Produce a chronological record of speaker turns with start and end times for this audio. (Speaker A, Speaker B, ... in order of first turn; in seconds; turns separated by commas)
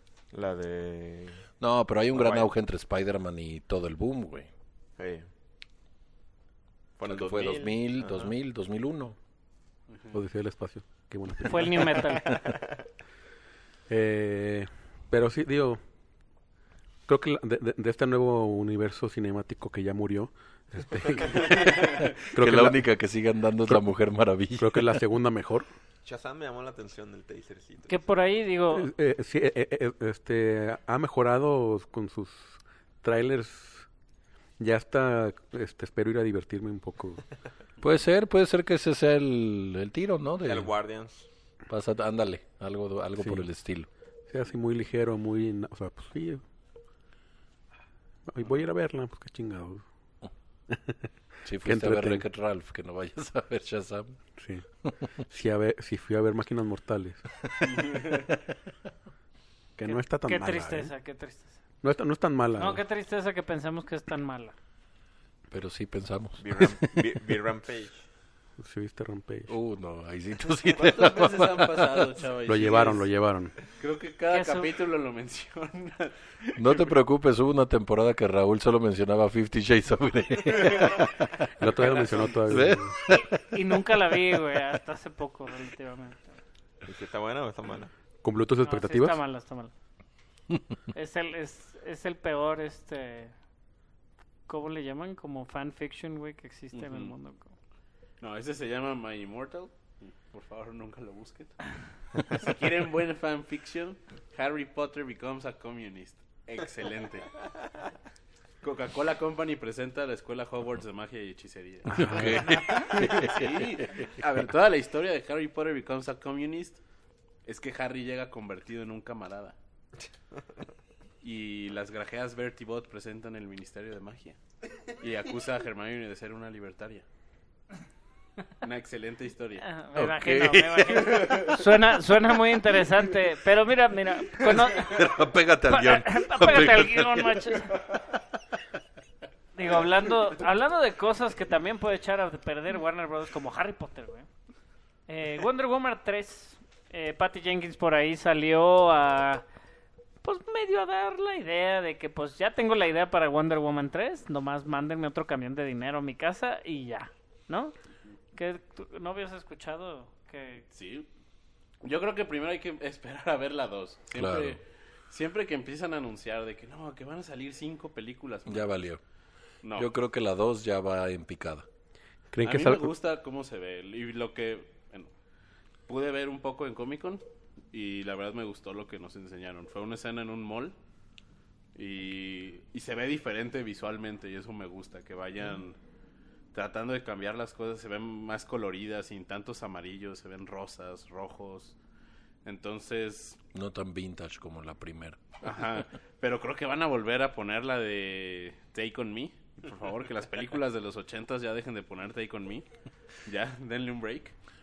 Speaker A: 0.3-1.4, Speaker B: 1.6-4.5, Speaker A: 2.1-2.5, Speaker A: 5.0-5.3, Speaker A: 7.0-8.3, Speaker B: 7.0-9.2, Speaker C: 9.9-10.2, Speaker D: 10.1-12.1, Speaker E: 11.4-12.3, Speaker D: 13.9-15.8, Speaker D: 17.1-22.9, Speaker B: 21.3-25.0, Speaker D: 24.6-25.7, Speaker A: 26.0-28.0, Speaker E: 27.9-28.9, Speaker D: 28.7-33.9, Speaker D: 34.6-37.2, Speaker B: 37.8-40.7, Speaker A: 40.4-41.3, Speaker B: 41.7-43.9, Speaker D: 43.2-43.5, Speaker D: 44.3-46.4, Speaker D: 48.3-49.8, Speaker D: 50.7-51.0, Speaker B: 51.4-54.2, Speaker D: 51.6-52.2, Speaker D: 54.4-54.6, Speaker B: 54.8-55.1, Speaker D: 55.3-57.2, Speaker C: 57.6-58.2, Speaker D: 59.8-60.9, Speaker E: 59.9-61.6, Speaker D: 61.8-62.8, Speaker E: 62.5-64.5, Speaker B: 65.5-67.1, Speaker A: 66.4-68.0, Speaker D: 68.6-69.5, Speaker B: 69.5-72.2, Speaker C: 70.7-73.1, Speaker D: 72.5-73.5, Speaker C: 73.6-76.9, Speaker E: 74.3-74.7, Speaker B: 76.5-81.5, Speaker D: 81.6-82.9, Speaker C: 81.9-82.2, Speaker B: 82.5-84.3, Speaker E: 83.5-86.4, Speaker A: 86.8-87.9, Speaker D: 88.2-89.2, Speaker E: 88.6-89.7, Speaker E: 90.9-93.3, Speaker E: 94.5-97.5, Speaker C: 96.7-97.1, Speaker C: 98.2-107.4, Speaker C: 108.6-116.8, Speaker D: 111.9-112.4, Speaker B: 111.9-114.1, Speaker C: 117.4-119.5, Speaker C: 121.2-124.4, Speaker C: 125.0-127.0, Speaker C: 128.6-129.6, Speaker E: 129.6-135.1, Speaker B: 129.9-131.4, Speaker C: 130.9-131.6, Speaker B: 134.4-138.3, Speaker E: 135.7-137.7, Speaker E: 139.5-144.3, Speaker E: 145.1-149.4, Speaker E: 150.2-157.7, Speaker E: 158.3-160.6, Speaker C: 160.7-161.1, Speaker C: 161.8-168.7, Speaker B: 164.1-164.6, Speaker B: 168.5-169.0, Speaker C: 169.6-169.9, Speaker B: 169.7-171.7, Speaker D: 172.3-172.9, Speaker C: 172.4-175.1, Speaker C: 175.9-180.7, Speaker C: 181.7-185.8, Speaker C: 186.5-191.8, Speaker C: 192.4-193.4, Speaker B: 193.5-195.4, Speaker C: 195.4-202.7, Speaker C: 203.2-204.3